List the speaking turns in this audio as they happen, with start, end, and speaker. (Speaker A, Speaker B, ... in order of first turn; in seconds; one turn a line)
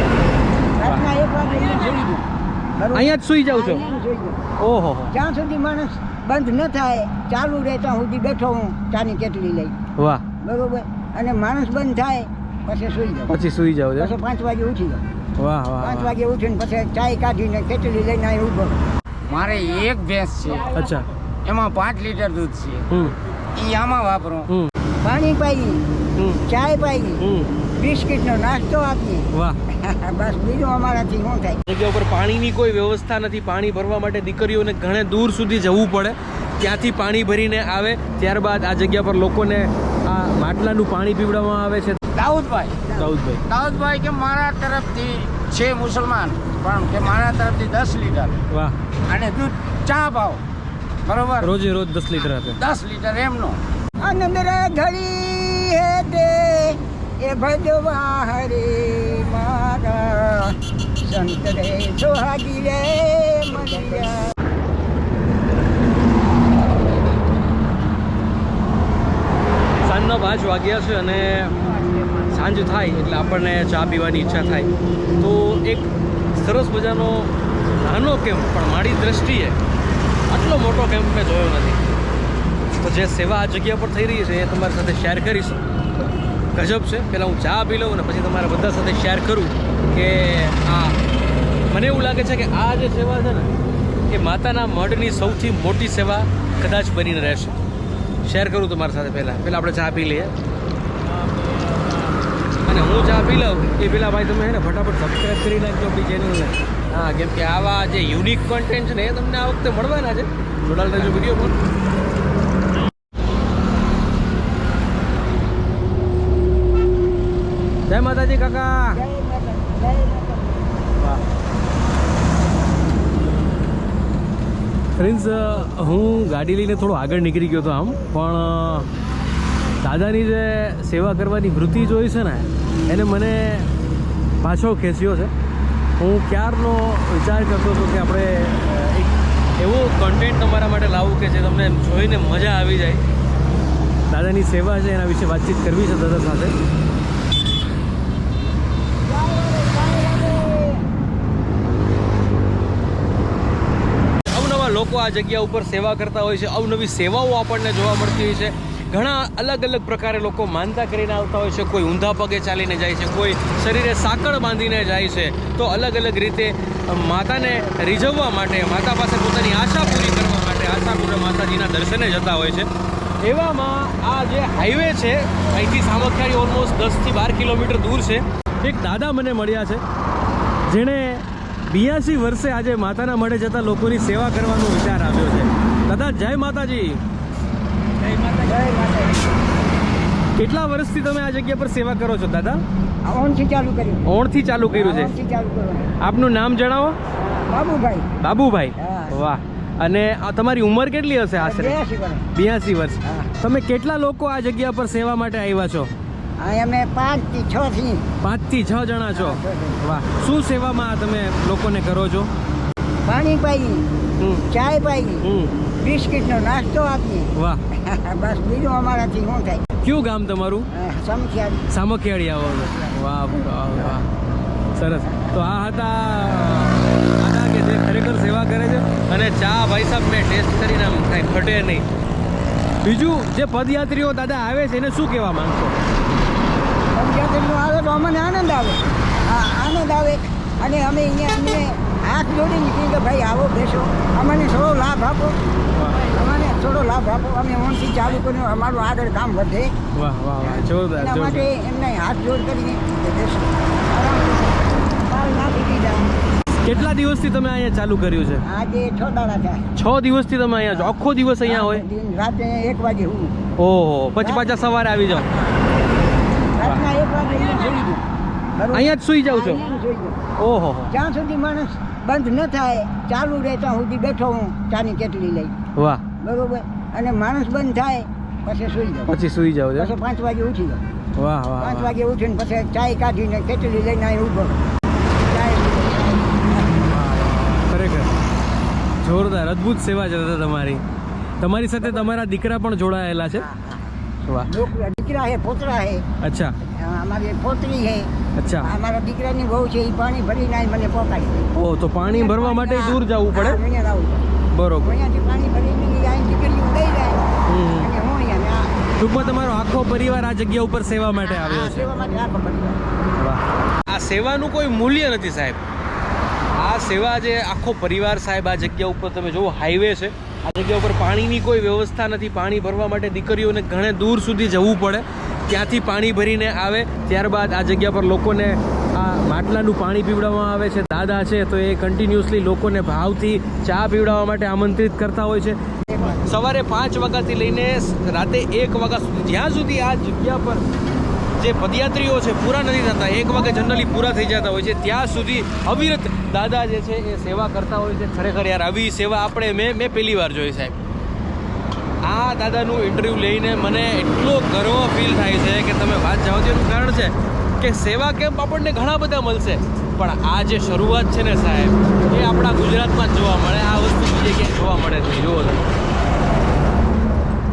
Speaker A: 0.8-4.5
Speaker B: 2.9-3.9
Speaker B: 4.6-5.1
Speaker A: 5.1-9.8
Speaker B: 10.0-10.2
Speaker A: 10.4-13.4
Speaker B: 13.3-14.1
Speaker A: 14.0-15.0
Speaker B: 15.4-16.1
Speaker A: 15.8-18.8
Speaker C: 19.3-20.7
Speaker B: 20.7-21.1
Speaker C: 21.4-22.8
Speaker B: 22.9-23.1
Speaker C: 23.6-24.5
Speaker A: 25.0-25.8
Speaker B: 26.1-26.4
Speaker A: 26.5-27.2
Speaker B: 27.2-27.5
Speaker A: 27.8-31.6
Speaker B: 29.3-29.6
Speaker B: 31.6-42.0
Speaker C: 42.1-42.9
Speaker B: 42.9-43.4
Speaker C: 43.5-48.4
Speaker B: 48.5-48.8
Speaker C: 49.1-50.4
Speaker C: 51.0-51.5
Speaker B: 51.4-52.6
Speaker C: 52.5-53.6
Speaker A: 54.0-64.3
Speaker B: 69.8-71.6
Speaker B: 72.1-79.6
Speaker B: 80.3-81.9
Speaker B: 82.8-85.6
Speaker B: 86.5-91.0
Speaker B: 91.7-93.5
Speaker B: 94.1-97.5
Speaker B: 98.2-100.3
Speaker B: 102.6-111.6
Speaker B: 117.9-119.0
Speaker A: 118.9-120.8
Speaker B: 125.0-128.9
Speaker B: 129.8-133.7
Speaker B: 134.4-135.3
Speaker B: 136.0-143.0
Speaker B: 144.1-146.5
Speaker A: 149.1-150.8
Speaker B: 154.3-172.7
Speaker B: 173.2-179.8
Speaker B: 180.7-187.0
Speaker A: 188.2-189.4
Speaker B: 190.3-192.6
Speaker A: 193.0-194.0
Speaker B: 194.0-195.1
Speaker A: 194.7-195.9
Speaker B: 196.0-197.0
Speaker A: 197.2-198.1
Speaker B: 198.2-201.8
Speaker A: 198.8-199.2
Speaker A: 201.4-202.3
Speaker B: 202.3-205.9
Speaker A: 203.0-203.3
Speaker A: 206.4-208.1
Speaker B: 208.2-212.3
Speaker A: 209.1-209.8
Speaker A: 213.0-213.8
Speaker B: 214.2-214.4
Speaker A: 214.5-215.2
Speaker B: 215.2-215.5
Speaker A: 215.8-219.6
Speaker B: 217.3-217.6
Speaker B: 219.8-220.7
Speaker A: 220.7-221.7
Speaker B: 221.7-224.1
Speaker A: 222.4-223.0
Speaker B: 224.7-231.8
Speaker B: 232.8-235.8
Speaker A: 236.9-245.4
Speaker B: 245.8-246.1
Speaker A: 246.0-249.7
Speaker B: 249.9-251.5
Speaker A: 250.4-256.1
Speaker B: 256.6-258.4
Speaker A: 258.4-259.6
Speaker B: 259.8-261.8
Speaker A: 261.4-263.4
Speaker B: 263.6-265.3
Speaker A: 264.2-264.6
Speaker A: 266.5-270.2
Speaker B: 268.7-269.6
Speaker B: 270.4-270.9
Speaker A: 270.9-275.6
Speaker B: 275.7-276.0
Speaker A: 276.2-279.1
Speaker B: 279.1-279.9
Speaker A: 279.8-280.8
Speaker B: 281.1-281.9
Speaker A: 281.6-284.6
Speaker A: 285.1-286.9
Speaker B: 286.9-288.1
Speaker B: 289.0-290.8
Speaker B: 291.4-293.5
Speaker A: 291.8-292.1
Speaker A: 293.4-296.0
Speaker B: 294.2-294.5
Speaker B: 296.2-296.6
Speaker A: 296.6-298.1
Speaker B: 298.4-298.7
Speaker A: 298.6-301.5
Speaker B: 301.5-303.6
Speaker A: 302.0-308.7
Speaker B: 304.5-304.9
Speaker B: 307.4-307.9
Speaker B: 309.0-311.9
Speaker A: 311.1-312.9
Speaker B: 313.1-315.6
Speaker B: 316.5-340.6
Speaker B: 341.4-350.8
Speaker B: 352.0-365.7